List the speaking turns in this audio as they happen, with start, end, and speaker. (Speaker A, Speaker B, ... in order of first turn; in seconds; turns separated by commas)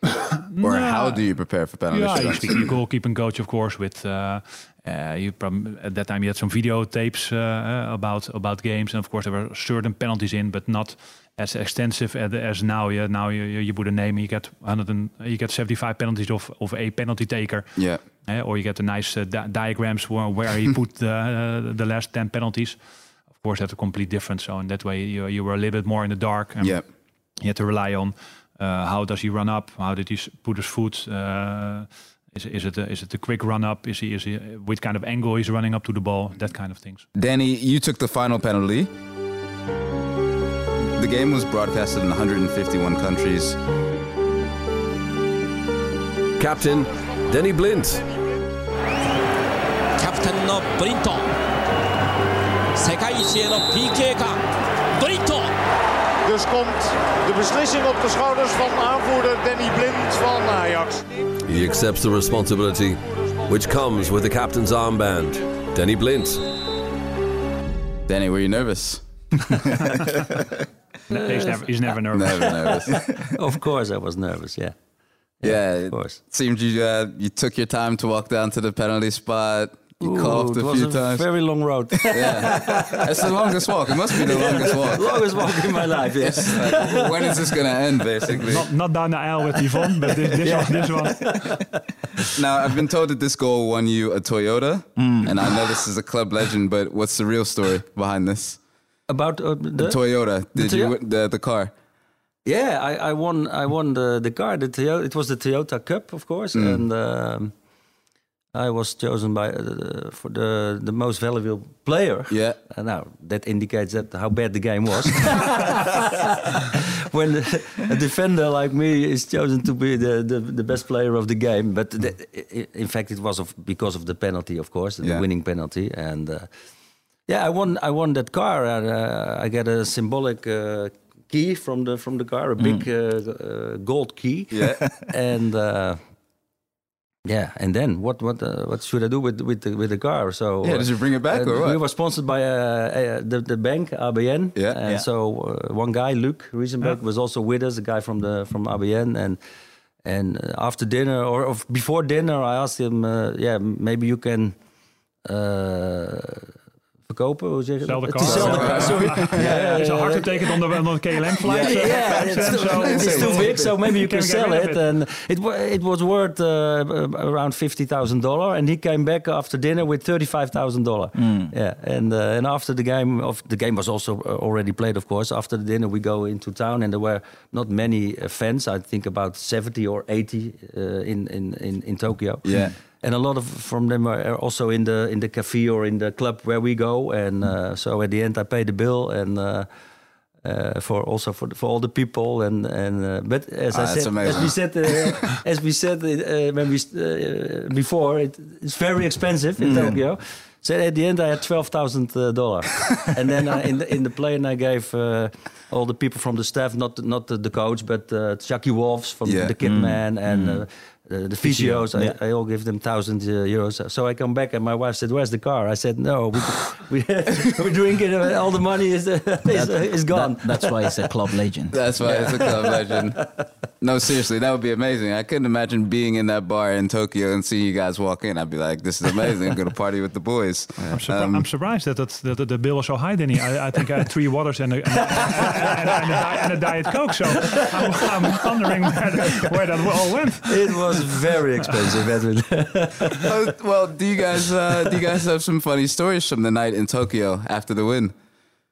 Speaker A: 0.5-1.2, Speaker B: 0.6-2.6, Speaker A: 1.9-22.8, Speaker A: 23.3-26.8, Speaker A: 27.4-37.1, Speaker B: 37.1-38.9, Speaker B: 41.0-43.6, Speaker C: 46.4-48.0, Speaker D: 50.0-51.3, Speaker D: 52.8-54.4, Speaker D: 55.0-55.5, Speaker E: 56.2-61.2, Speaker C: 61.5-66.4, Speaker B: 68.1-69.7, Speaker F: 71.1-71.7, Speaker A: 71.1-72.6, Speaker B: 72.1-73.0, Speaker F: 72.4-74.8, Speaker F: 75.4-76.2, Speaker B: 75.4-81.3, Speaker F: 80.0-83.3, Speaker B: 81.9-85.3, Speaker F: 84.1-87.5, Speaker B: 86.2-88.6, Speaker A: 88.4-91.5, Speaker F: 89.6-91.7, Speaker B: 92.3-98.6, Speaker G: 95.0-95.3, Speaker F: 99.1-100.0, Speaker B: 99.8-101.7, Speaker F: 100.5-100.9, Speaker F: 102.5-107.5, Speaker B: 106.5-106.8, Speaker F: 108.5-126.5, Speaker B: 112.3-112.6, Speaker F: 127.3-136.0, Speaker G: 132.6-132.9, Speaker B: 134.5-134.8, Speaker F: 137.3-149.4, Speaker B: 140.6-141.8, Speaker F: 150.0-154.6, Speaker F: 155.3-156.5, Speaker F: 157.1-160.8, Speaker A: 157.8-164.8, Speaker B: 158.3-159.4, Speaker G: 161.4-162.1, Speaker F: 161.5-189.7, Speaker B: 162.8-163.6, Speaker G: 171.2-171.5, Speaker B: 182.4-182.7, Speaker F: 190.4-221.0, Speaker B: 193.7-194.7, Speaker G: 199.6-200.0, Speaker B: 209.2-209.5, Speaker G: 209.6-210.6, Speaker G: 211.4-212.2, Speaker G: 219.5-221.8, Speaker B: 221.7-223.2, Speaker F: 222.0-223.2, Speaker B: 223.8-231.4, Speaker A: 230.9-241.2, Speaker F: 235.1-235.8, Speaker F: 237.4-238.4, Speaker F: 240.5-243.3, Speaker B: 243.2-248.1